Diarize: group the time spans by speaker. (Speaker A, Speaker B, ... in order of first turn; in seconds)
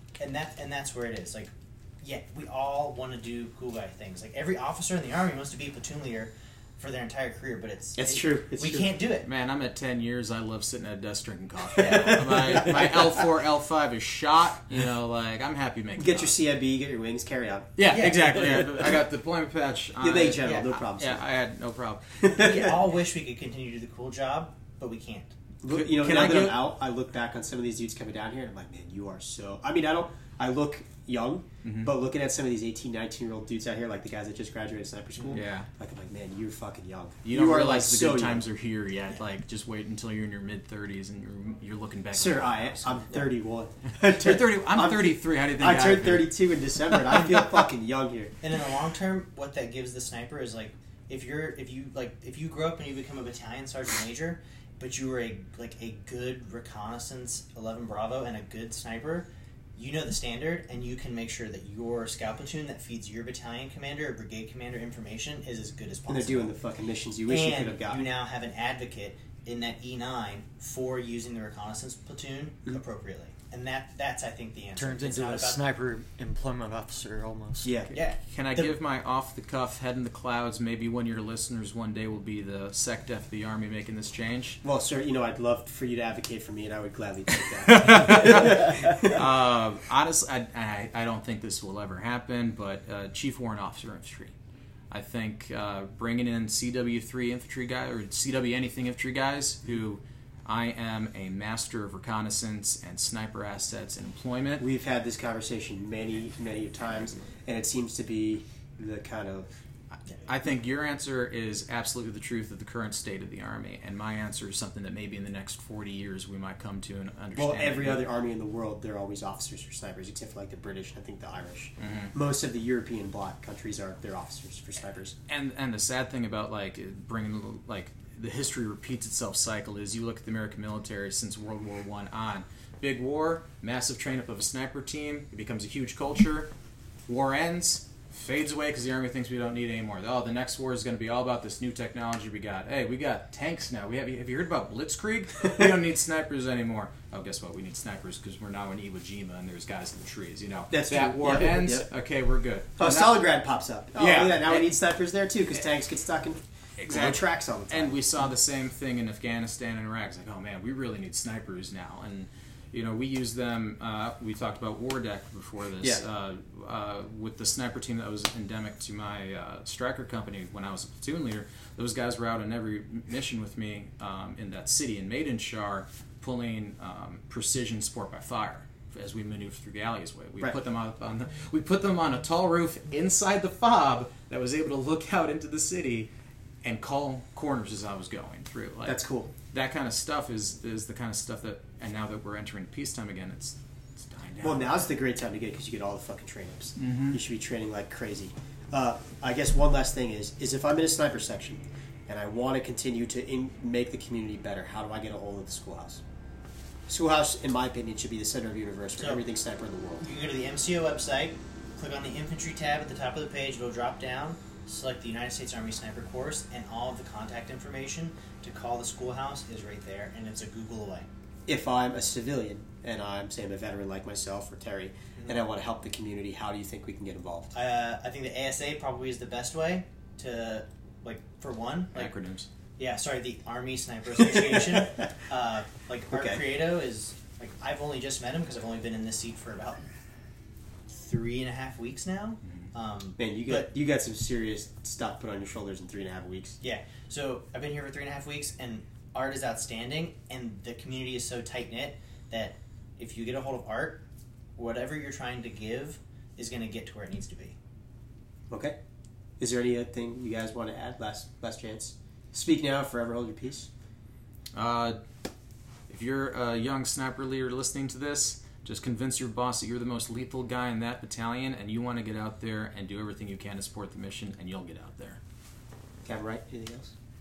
Speaker A: 0.2-9.3, 11.8-12.6, 17.9-18.7, 20.4-20.7, 22.3-25.4, 48.4-66.5, 67.3-75.6, 77.9-78.2, 209.0-209.2, 210.0-221.1, 227.5-232.1, 232.8-239.9, 240.9-243.7, 246.6-254.0, 254.6-257.6
Speaker B: 8.0-8.9, 11.8-13.2, 16.0-17.8, 20.0-21.2, 22.2-22.7, 25.6-38.5, 42.1-48.3, 66.1-68.0, 77.6-78.0, 84.6-89.2, 104.6-109.5, 117.3-125.1, 150.7-151.9, 152.8-158.0, 188.9-189.3, 194.4-206.0, 206.9-210.0, 221.4-227.5, 234.2-235.1, 236.1-236.4, 243.2-246.6, 258.5-258.8, 259.4-263.7, 276.1-276.9
Speaker C: 9.2-16.3, 17.8-22.2, 25.7-26.6, 31.6-31.9, 35.3-35.7, 37.2-43.3, 44.0-46.4, 46.9-47.4, 78.2-84.6, 87.7-94.3, 94.9-104.6, 110.2-118.0, 121.8-122.1, 125.3-136.5, 137.1-153.2, 153.9-154.8, 156.8-186.1, 186.6-189.0, 189.5-194.9, 196.8-197.2, 231.9-232.5, 264.5-265.0, 265.9-275.2
Speaker D: 74.8-77.7